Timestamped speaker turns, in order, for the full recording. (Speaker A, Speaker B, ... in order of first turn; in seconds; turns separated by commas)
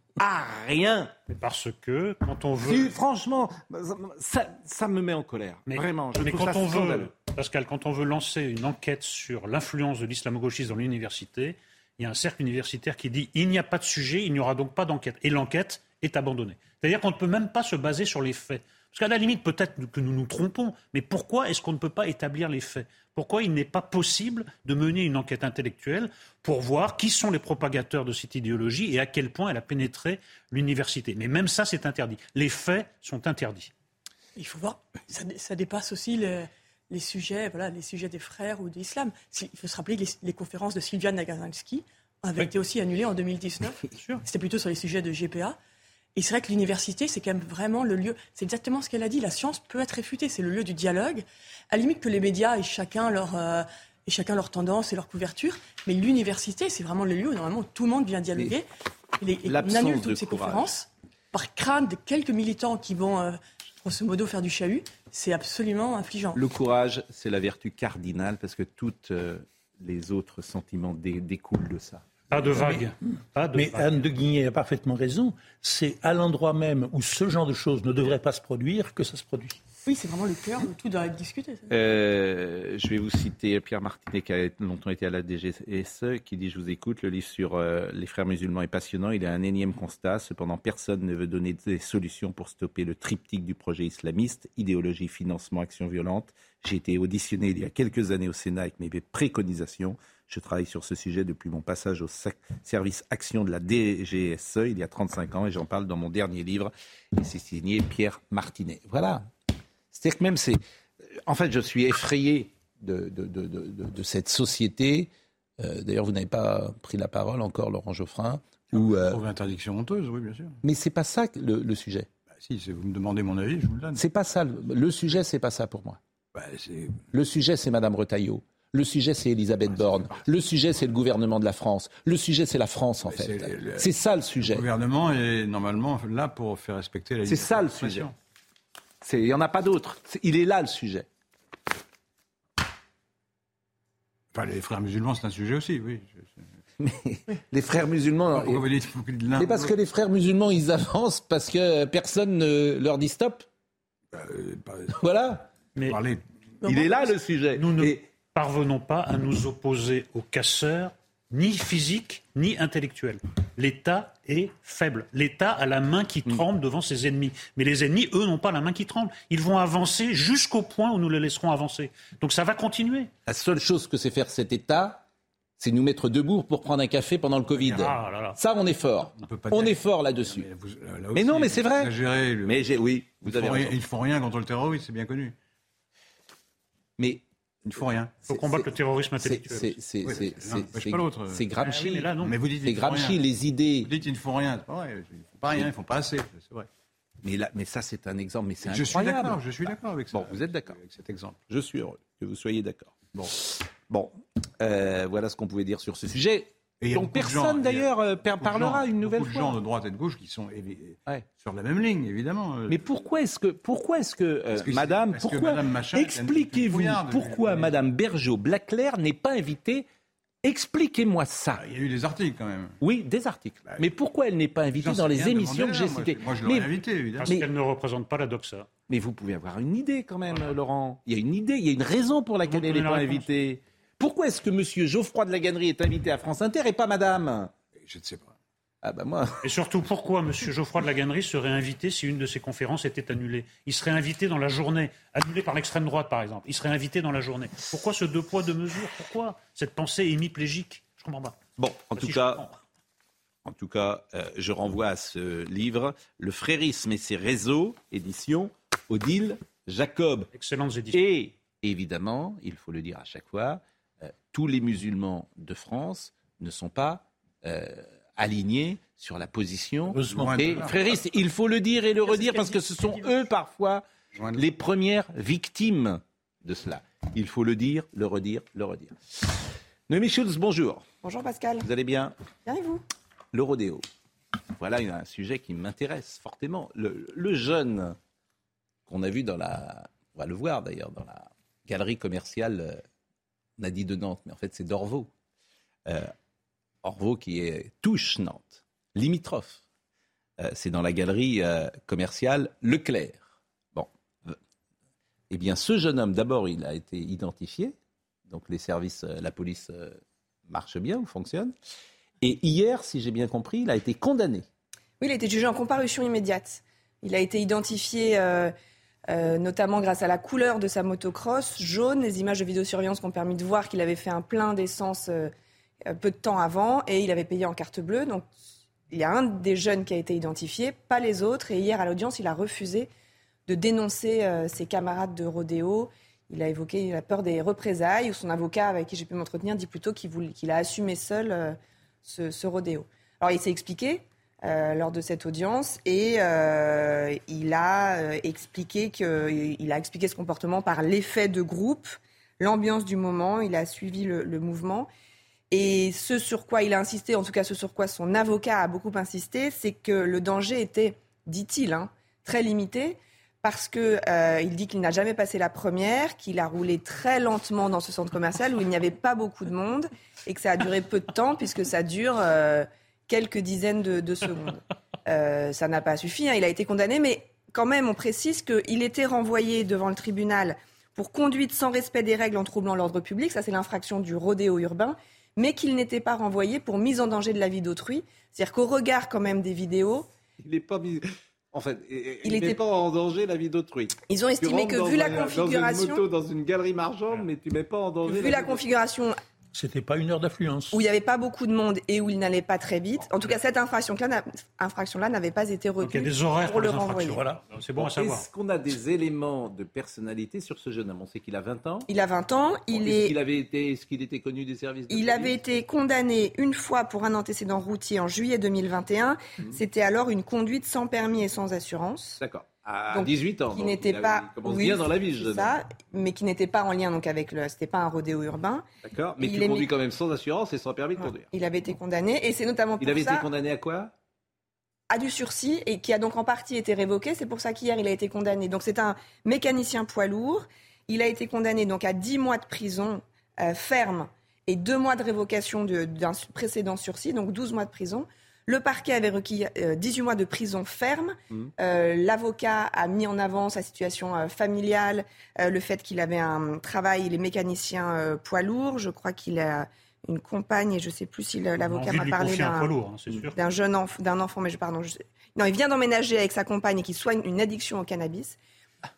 Speaker A: 0.2-1.1, Speaker B: 1.3-2.9, Speaker A: 2.6-7.1, Speaker B: 5.7-33.7, Speaker C: 34.4-45.6, Speaker C: 46.1-58.6, Speaker C: 59.2-66.4, Speaker A: 59.4-60.7, Speaker A: 66.3-72.1, Speaker B: 72.3-74.0, Speaker D: 73.5-79.6, Speaker C: 79.8-81.7, Speaker A: 81.7-109.3, Speaker A: 109.9-110.6, Speaker A: 111.2-115.1, Speaker A: 115.6-119.2, Speaker E: 118.7-120.6, Speaker A: 120.6-122.1, Speaker E: 122.4-124.0, Speaker A: 124.0-126.0, Speaker E: 126.3-127.0, Speaker A: 127.1-134.6, Speaker E: 129.7-130.2, Speaker E: 133.1-133.9, Speaker E: 134.4-138.1, Speaker A: 137.2-138.1, Speaker A: 139.0-141.1, Speaker E: 144.3-146.4, Speaker A: 146.8-148.6, Speaker E: 148.3-149.7, Speaker A: 149.4-153.4, Speaker E: 154.1-155.0, Speaker A: 155.0-155.5, Speaker E: 155.8-156.2, Speaker A: 156.6-158.0, Speaker C: 156.6-157.1, Speaker B: 157.5-173.1, Speaker A: 173.2-175.0, Speaker A: 175.6-180.5, Speaker B: 177.6-178.4, Speaker E: 179.2-182.6, Speaker A: 181.1-181.9, Speaker A: 182.4-183.8, Speaker E: 183.2-185.3, Speaker E: 187.6-188.2, Speaker B: 188.3-189.8, Speaker A: 188.3-188.7, Speaker A: 189.2-193.9, Speaker E: 190.0-191.5, Speaker B: 191.6-192.4, Speaker E: 192.2-193.2, Speaker E: 193.8-196.7, Speaker A: 197.2-200.8, Speaker E: 198.6-201.4, Speaker A: 201.5-209.6, Speaker E: 206.8-212.8, Speaker A: 212.7-219.8, Speaker E: 214.5-217.7, Speaker A: 220.4-221.6, Speaker E: 221.6-222.8, Speaker A: 222.8-226.7, Speaker E: 224.8-227.4, Speaker B: 227.1-228.7, Speaker A: 228.9-237.5, Speaker B: 232.4-233.3, Speaker E: 237.8-238.3, Speaker A: 238.8-239.4, Speaker B: 239.4-251.4, Speaker A: 251.6-252.4, Speaker B: 251.9-252.6, Speaker A: 253.4-260.3, Speaker B: 260.3-261.0, Speaker A: 260.9-273.8, Speaker D: 269.9-270.6, Speaker E: 270.0-271.0, Speaker C: 272.0-273.3, Speaker E: 274.1-274.4, Speaker A: 274.4-280.8, Speaker F: 281.0-281.6, Speaker A: 281.6-282.1, Speaker F: 282.4-282.8, Speaker A: 283.3-283.9, Speaker A: 284.6-287.9, Speaker A: 288.9-292.8, Speaker A: 293.6-295.1, Speaker A: 295.9-296.1, Speaker A: 296.8-299.6, Speaker A: 300.4-304.4, Speaker A: 305.3-307.7, Speaker A: 308.3-311.5, Speaker A: 312.2-314.4, Speaker F: 315.0-318.5, Speaker F: 319.1-325.3, Speaker F: 325.9-328.3, Speaker F: 328.9-332.9, Speaker F: 333.5-354.9, Speaker F: 355.5-390.1, Speaker A: 390.4-398.7, Speaker F: 392.2-392.6, Speaker F: 394.1-396.0, Speaker F: 398.0-399.1, Speaker D: 399.5-400.8, Speaker F: 400.7-407.2, Speaker B: 405.8-408.2, Speaker A: 407.8-411.9, Speaker F: 411.9-413.1, Speaker A: 412.7-415.4, Speaker F: 414.9-422.2, Speaker A: 422.2-425.6, Speaker F: 422.9-428.6, Speaker A: 428.8-431.3, Speaker F: 429.2-429.7, Speaker F: 431.0-433.2, Speaker A: 432.8-433.9, Speaker F: 434.9-462.7, Speaker B: 461.6-463.4, Speaker F: 463.3-468.4